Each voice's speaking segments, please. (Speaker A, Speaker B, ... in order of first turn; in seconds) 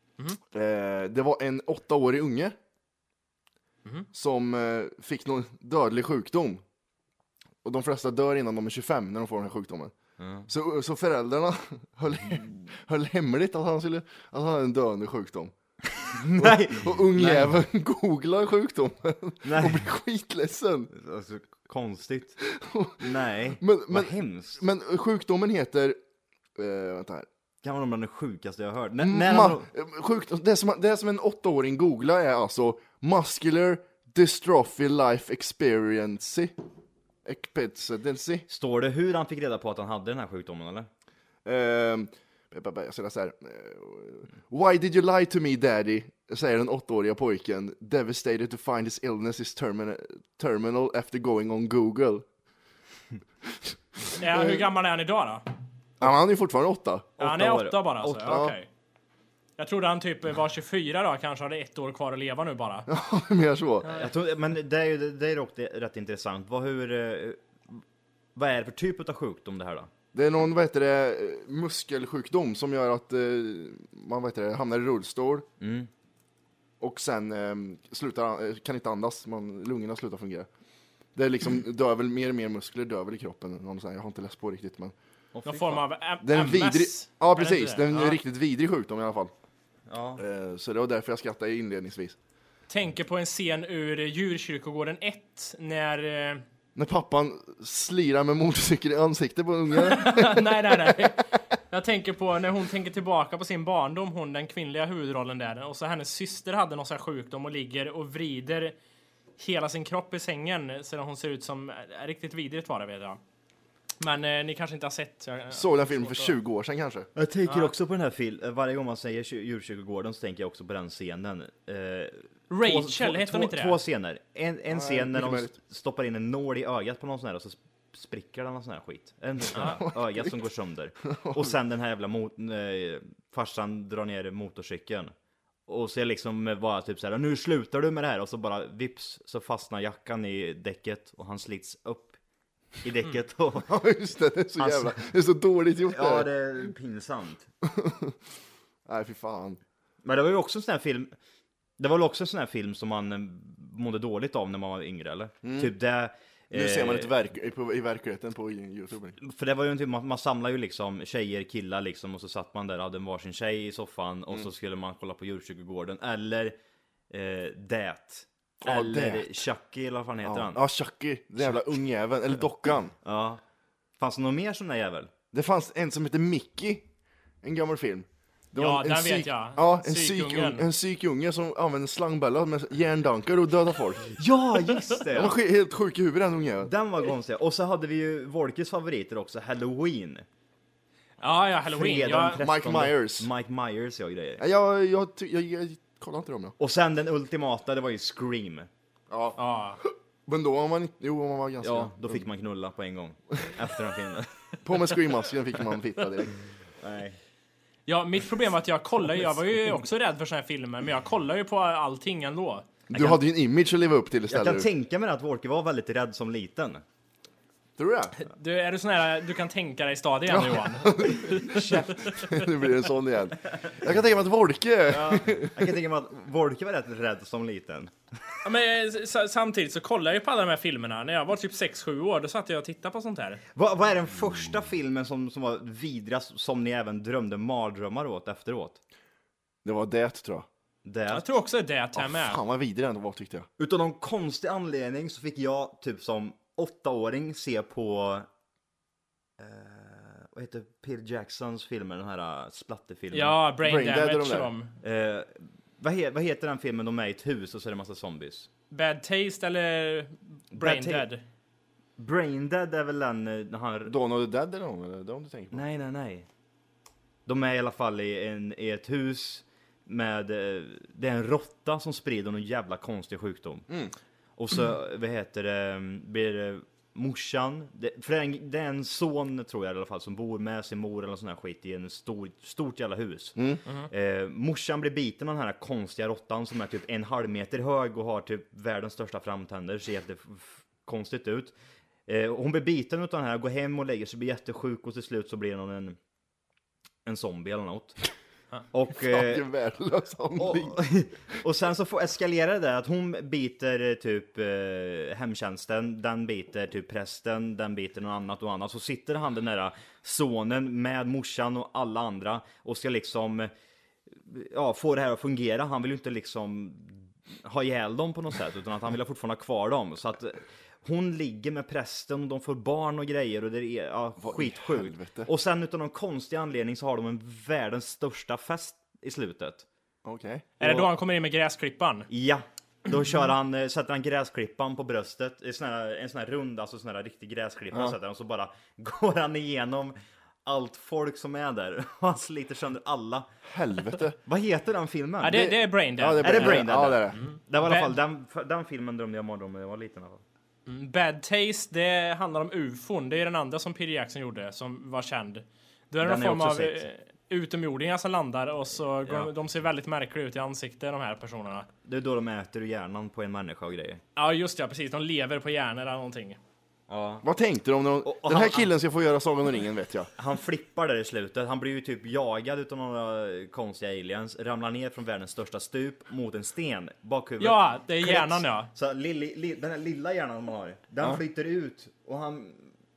Speaker A: 0.5-2.5, 4.1-6.6, 7.6-9.9, 10.5-15.5, 16.4-20.9, 22.5-26.0, 26.6-27.3, 29.0-36.5, 37.2-38.5, 41.5-52.2, 54.2-54.6, 56.0-57.2, 58.2-58.5, 62.9-64.0, 70.1-75.5, 76.8-80.5, 81.2-84.9, 86.2-89.3, 90.2-92.2, 96.8-101.0, 115.5-117.1, 124.7-125.5, 129.6-130.4, 131.1-131.5, 143.7-146.3, 147.6-148.2, 148.9-149.6, 155.4-155.7, 156.5-159.2, 168.6-169.4, 170.2-172.9, 175.3-176.9, 177.4-184.1, 185.1-186.7, 192.4-193.3, 194.4-196.5, 199.1-202.2, 204.6-206.3, 212.9-214.7, 217.8-218.1, 220.3-225.7, 239.7-240.5, 242.0-243.5, 253.6-254.5, 263.9-265.6, 299.0-300.8, 324.2-325.3, 330.1-330.6, 343.5-344.2, 345.3-347.2, 367.2-370.1
Speaker B: 10.2-10.5, 16.0-17.6, 19.4-19.9, 20.9-22.4, 23.0-24.6, 27.6-29.7, 38.5-40.9, 57.2-58.4, 63.9-67.8, 68.3-69.9, 75.6-75.9, 85.3-85.8, 89.9-90.2, 117.2-135.1, 135.7-142.2, 142.8-143.8, 144.6-145.0, 145.8-147.5, 150.0-151.1, 151.8-157.1, 159.2-166.6, 167.1-170.6, 173.0-173.4, 174.0-175.1, 184.2-185.4, 186.6-190.2, 191.7-194.4, 196.6-198.7, 201.6-204.9, 206.8-207.2, 212.9-213.2, 214.3-216.8, 224.9-227.9, 233.6-238.8, 240.8-241.3, 243.6-248.3, 249.4-253.4, 254.8-258.5, 260.5-261.1, 262.0-263.9, 265.5-266.3, 267.3-273.7, 274.4-291.5, 292.1-296.0, 297.1-298.0, 298.7-299.4, 300.4-313.5, 314.1-329.6, 330.6-330.9, 332.1-343.3, 344.3-345.5, 346.2-350.2, 356.0-356.9, 361.9-364.0, 366.9-367.2, 368.0-368.7, 370.2-382.7
Speaker C: 54.2-55.5, 57.2-58.7, 59.6-62.9, 85.5-88.1, 92.7-96.4, 99.8-108.8, 109.4-113.2, 114.0-116.4, 117.5-117.7, 122.5-123.8, 129.6-129.8, 178.6-180.7, 191.2-192.4, 199.4-199.8, 207.9-212.7, 218.2-222.1, 228.4-233.4, 241.1-242.4, 253.1-254.7, 258.7-261.2, 330.6-332.1, 345.2-346.6, 347.2-347.9, 350.7-361.7, 364.2-366.4, 377.4-378.7